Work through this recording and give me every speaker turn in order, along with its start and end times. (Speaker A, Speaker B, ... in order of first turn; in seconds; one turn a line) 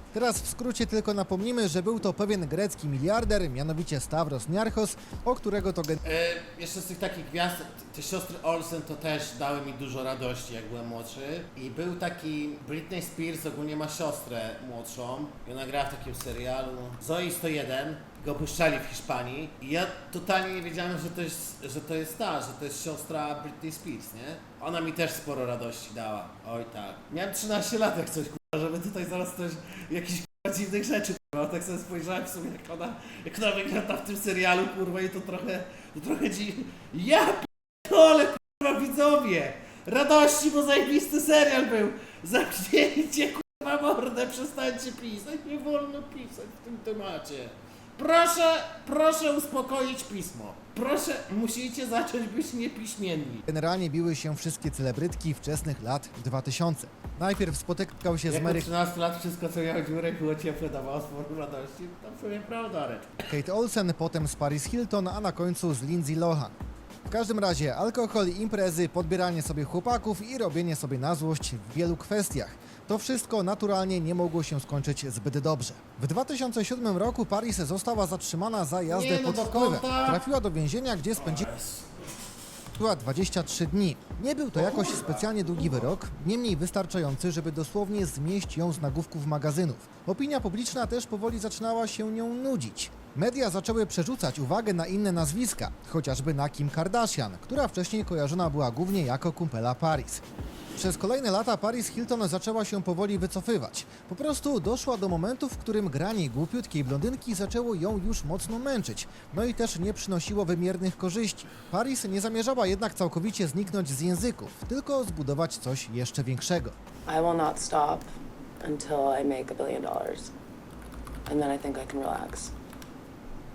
Speaker A: 0.1-6.0
Speaker B: 6.0-53.5
Speaker A: 53.5-58.7
Speaker B: 58.3-63.2
Speaker A: 63.2-66.5
Speaker A: 67.1-81.5
Speaker B: 78.9-80.2
Speaker B: 81.2-81.9
Speaker A: 82.8-100.2
Speaker B: 84.5-85.9
Speaker A: 100.8-116.7
Speaker C: 117.1-118.1
Speaker C: 118.6-120.3
Speaker C: 121.3-122.5